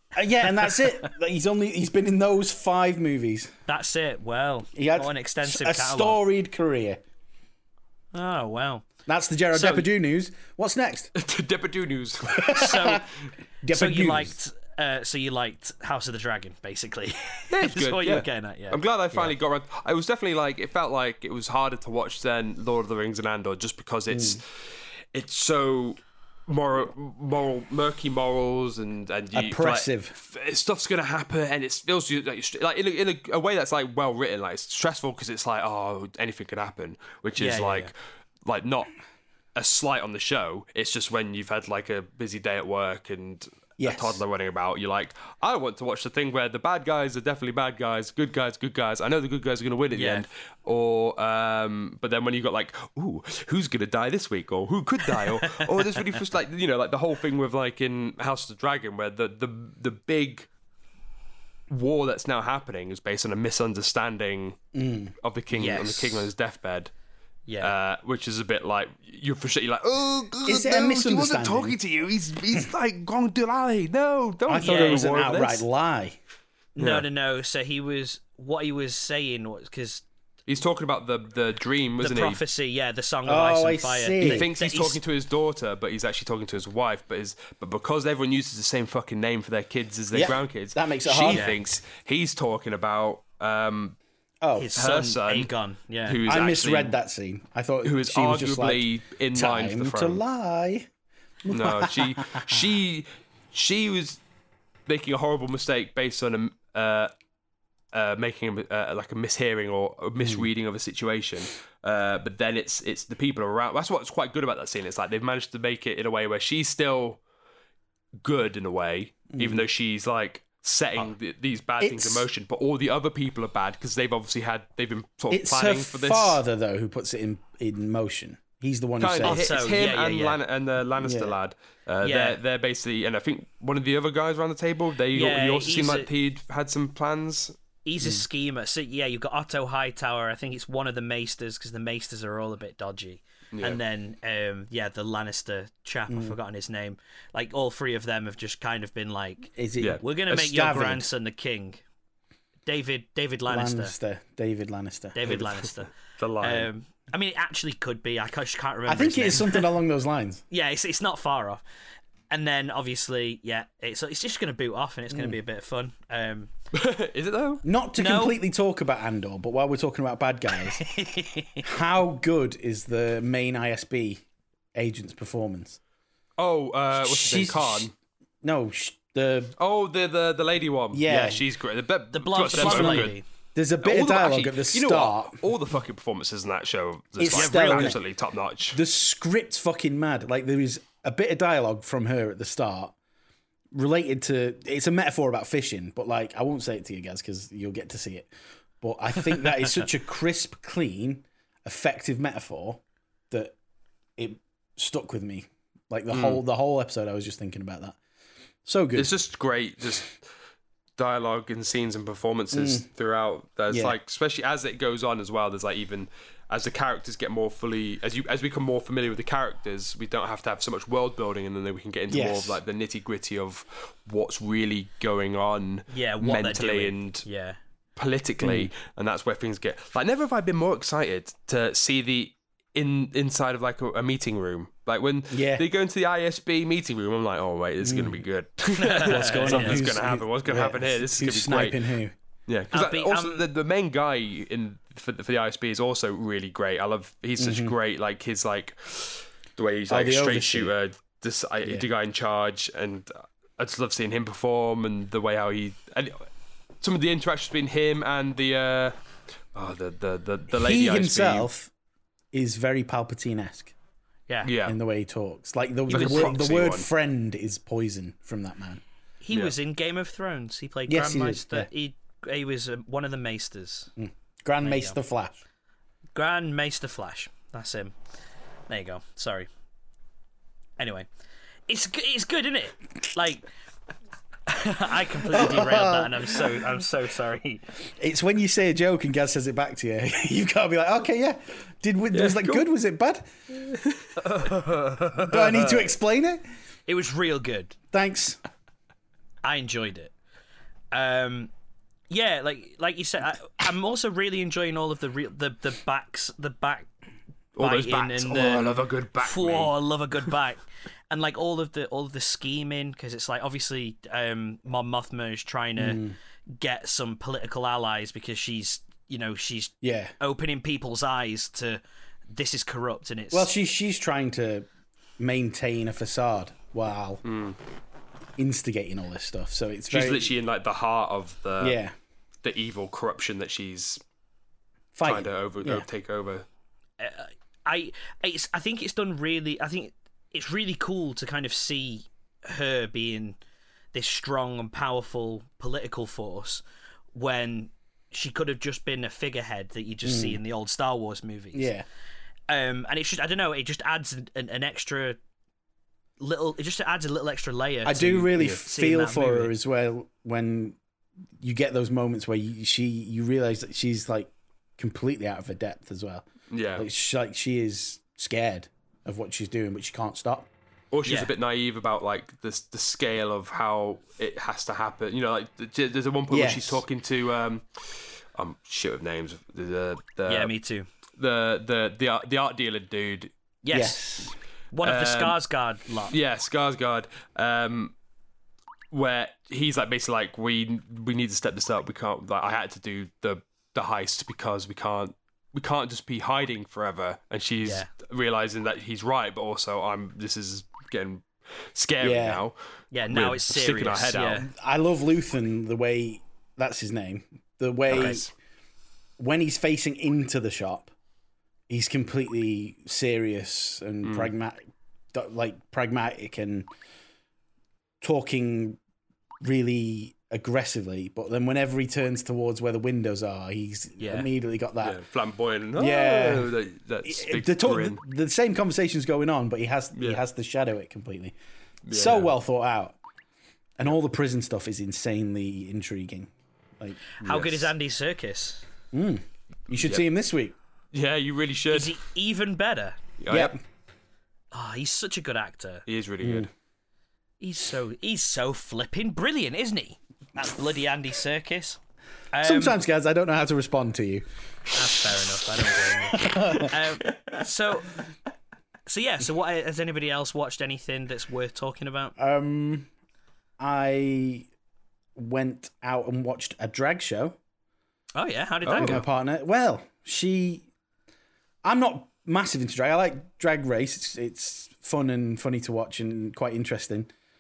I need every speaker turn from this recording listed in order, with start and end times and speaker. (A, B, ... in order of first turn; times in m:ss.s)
0:00.1-0:03.5 A
0:03.7-0:06.2 B
0:04.7-0:07.0 A
0:08.1-0:08.9 B
0:09.1-0:11.1 A
0:11.1-0:13.0 C
0:12.4-0:13.0 A
0:12.5-0:13.0 B
0:13.6-0:14.3 A
0:13.7-0:19.3 B
0:17.5-0:24.5 C
0:24.1-0:24.4 A
0:25.1-0:37.9 C
0:29.3-0:30.2 A
0:37.4-0:37.9 B
0:38.4-0:38.9 C
0:39.6-1:00.5 C
0:43.8-0:44.2 A
0:49.9-0:50.2 B
0:55.1-0:55.8 B
1:01.7-1:04.6 C
1:04.7-1:05.1 A
1:05.2-1:06.9 C
1:05.5-1:06.3 B
1:07.5-1:07.7 B
1:07.6-1:15.6 C
1:10.4-1:11.8 A
1:14.5-1:16.2 A
1:14.6-1:15.0 B
1:16.8-1:20.0 B
1:16.8-1:17.0 C
1:20.5-1:22.4 C
1:22.0-1:25.0 B
1:23.2-1:24.5 A
1:24.2-1:34.0 C
1:30.1-1:31.5 A
1:31.3-1:31.6 B
1:34.4-1:34.7 A
1:34.6-1:36.2 B
1:34.8-1:35.5 C
1:36.1-1:36.9 C
1:36.2-1:40.9 A
1:37.8-1:40.2 C
1:41.4-1:42.6 A
1:41.5-1:44.2 C
1:44.9-1:47.1 C
1:47.9-1:57.2 C
1:50.2-1:50.5 A
1:58.2-2:06.4 C
1:59.3-1:59.6 A
2:01.8-2:02.3 A
2:05.3-2:09.5 A
2:09.0-2:17.6 C
2:09.2-2:10.4 B
2:11.0-2:11.4 A
2:12.0-2:12.4 B
2:15.1-2:16.1 B
2:17.8-2:31.8 B
2:23.5-2:23.8 C
2:26.1-2:26.4 A
2:29.6-2:31.1 A
2:32.6-2:34.0 B
2:33.5-2:35.3 A
2:35.1-2:35.9 B
2:35.3-2:36.7 C
2:36.4-2:39.6 B
2:38.9-2:40.4 A
2:40.5-2:41.6 B
2:42.3-2:46.5 B
2:45.1-2:45.4 A
2:46.7-2:47.6 C
2:47.6-2:50.9 A
2:48.0-2:48.4 B
2:50.8-2:51.7 B
2:51.6-2:54.2 A
2:54.8-2:55.8 A
2:56.4-2:57.9 C
2:57.0-2:57.9 A
2:58.4-2:59.6 A
2:59.6-3:03.2 C
3:00.9-3:01.4 A
3:02.1-3:03.2 B
3:02.5-3:05.4 A
3:03.8-3:08.8 C
3:07.2-3:08.0 A
3:07.3-3:08.0 B
3:08.7-3:12.9 A
3:13.7-3:18.3 A
3:18.8-3:23.6 A
3:24.2-3:28.0 A
3:26.1-3:26.4 C
3:28.6-3:29.1 A
3:29.0-3:30.2 C
3:31.0-3:47.2 C
3:32.5-3:32.9 A
3:33.7-3:34.0 A
3:42.1-3:42.6 A
3:45.9-3:47.6 B
3:48.0-4:01.8 C
3:48.4-3:48.7 A
3:55.3-3:55.6 A
3:57.8-3:58.2 A
3:58.8-3:59.8 B
3:59.0-4:02.1 A
4:02.5-4:16.3 C
4:02.7-4:03.4 B
4:07.4-4:07.8 A
4:09.9-4:10.7 A
4:16.8-4:19.0 C
4:19.6-4:21.5 C
4:20.5-4:21.7 A
4:22.3-4:23.7 A
4:24.4-4:24.8 C
4:24.6-4:28.8 A
4:25.9-4:26.4 B
4:25.9-4:26.9 C
4:29.2-4:33.9 B
4:30.9-4:31.7 A
4:34.0-4:35.4 A
4:34.6-4:35.0 B
4:36.1-4:37.9 B
4:38.7-4:39.5 B
4:40.8-4:41.1 B
4:41.7-4:43.5 B
4:44.5-4:47.6 B
4:45.3-4:46.5 A
4:48.0-4:53.3 A
4:52.1-4:52.7 C
4:53.6-4:55.8 C
4:54.3-4:55.0 B
4:55.2-4:56.4 A
4:56.9-4:57.8 B
4:57.9-4:58.4 A
4:59.4-5:00.1 B
5:00.9-5:01.5 B
5:02.1-5:06.9 B
5:07.6-5:09.7 C
5:07.6-5:16.0 B
5:15.8-5:16.2 A
5:16.6-5:23.5 B
5:19.8-5:20.1 A
5:23.3-5:24.7 A
5:25.2-5:27.2 A
5:27.2-5:27.6 C
5:28.4-5:30.3 A
5:29.9-5:31.8 C
5:31.6-5:31.9 A
5:32.4-5:34.0 C
5:35.0-5:35.9 A
5:35.0-5:36.4 C
5:37.0-5:43.4 B
5:43.9-5:46.6 B
5:47.1-5:51.7 B
5:50.0-5:50.4 A
5:51.5-5:51.9 A
5:52.5-5:55.2 B
5:56.2-5:59.5 B
5:57.8-6:00.8 A
6:01.4-6:10.5 A
6:06.5-6:06.9 C
6:10.9-6:20.5 C
6:11.1-6:11.3 B
6:16.3-6:16.8 A
6:20.3-6:20.9 B
6:21.2-6:23.3 C
6:23.6-6:26.1 B
6:23.7-6:24.4 A
6:24.8-6:25.4 C
6:26.1-6:27.9 C
6:28.9-6:42.6 C
6:37.6-6:37.9 B
6:42.0-6:42.4 A
6:42.9-6:44.5 B
6:43.1-6:44.4 C
6:44.4-6:48.2 A
6:47.9-6:48.2 B
6:47.9-6:48.3 C
6:49.2-6:50.9 A
6:51.7-6:56.7 A
6:54.0-6:54.3 C
6:58.0-6:58.8 A
6:59.4-7:05.0 A
7:04.0-7:04.3 B
7:04.8-7:08.0 C
7:05.8-7:06.5 A
7:07.0-7:11.4 A
7:10.0-7:10.2 C
7:11.9-7:12.3 C
7:11.9-7:13.0 A
7:13.8-7:17.6 A
7:17.2-7:18.6 B
7:17.3-7:17.6 C
7:18.9-7:20.6 A
7:19.8-7:20.0 C
7:20.9-7:22.0 C
7:21.7-7:23.0 B
7:23.2-7:23.6 C
7:23.3-7:23.6 A
7:24.5-7:25.8 B
7:25.9-7:26.5 C
7:26.2-7:26.5 A
7:27.4-7:31.8 B
7:32.3-7:32.8 B
7:32.4-7:34.2 A
7:34.7-7:38.0 B
7:36.1-7:36.8 A
7:38.9-7:42.1 B
7:42.2-7:42.9 A
7:43.6-7:44.5 A
7:45.2-7:47.4 A
7:48.1-7:49.0 B
7:48.6-7:49.0 C
7:48.8-7:50.7 A
7:51.6-7:57.1 A